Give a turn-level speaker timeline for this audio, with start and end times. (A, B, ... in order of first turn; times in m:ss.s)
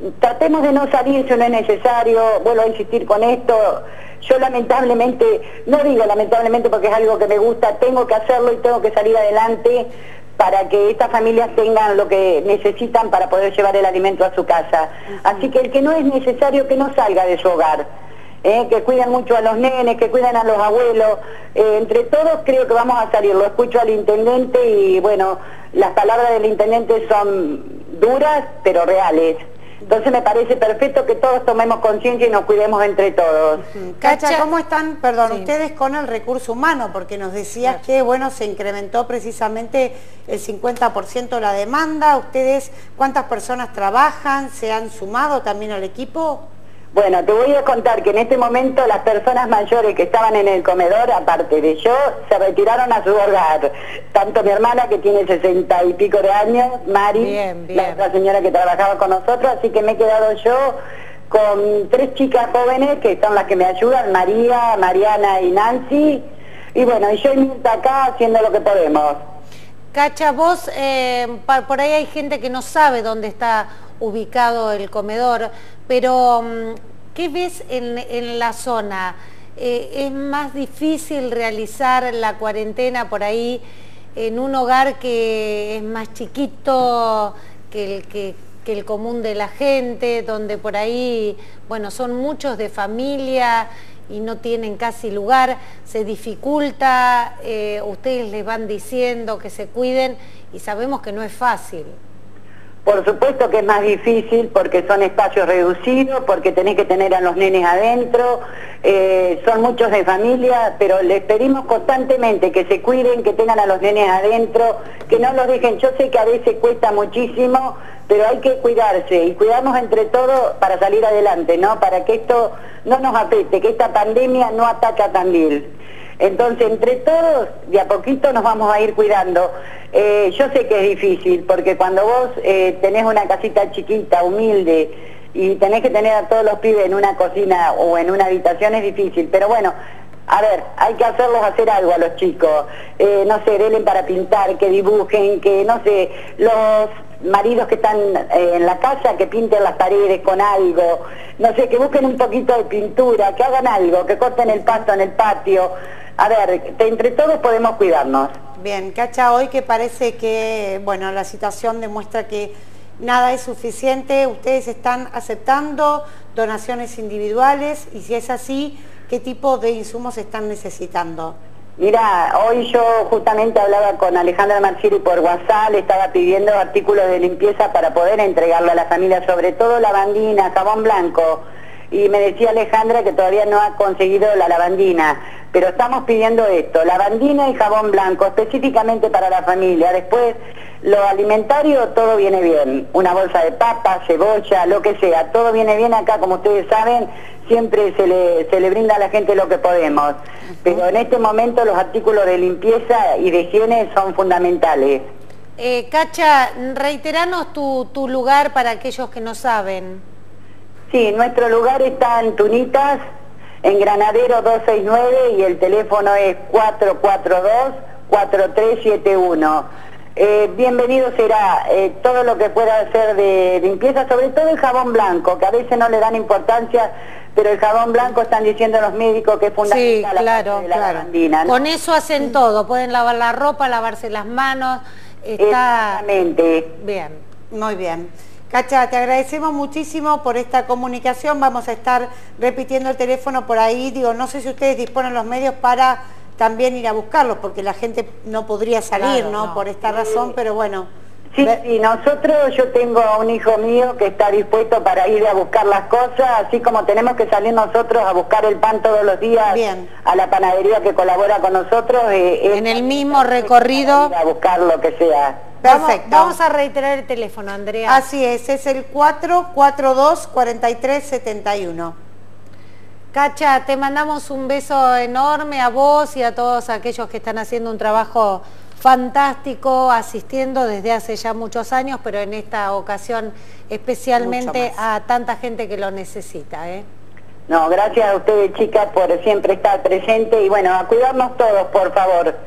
0:00.2-0:17.9 A
0:18.4-0:33.6 A
0:33.7-0:46.4 B
0:34.0-0:34.4 C
0:46.9-1:00.8 A
0:57.2-0:58.0 C
1:01.3-1:06.2 A
1:06.7-1:09.2 A
1:09.9-1:23.6 C
1:24.1-1:42.0 C
1:42.8-2:05.7 A
2:06.2-2:19.7 A
2:20.3-2:38.3 A
2:38.6-2:51.4 B
2:51.8-3:25.0 A
3:25.6-3:30.0 C
3:30.9-3:33.0 A
3:33.6-3:51.6 A
3:49.6-3:50.7 C
3:50.7-3:51.1 B
3:51.4-3:56.0 C
3:55.4-3:56.7 A
3:56.8-3:57.2 C
3:57.5-4:10.9 B
4:09.0-4:09.6 C
4:09.8-4:10.3 A
4:11.3-4:25.5 A
4:19.5-4:19.9 B
4:22.5-4:24.1 C
4:25.6-4:26.4 B
4:25.6-4:28.0 C
4:27.9-4:32.0 B
4:33.1-4:46.8 C
4:44.2-4:44.8 B
4:47.5-4:52.3 A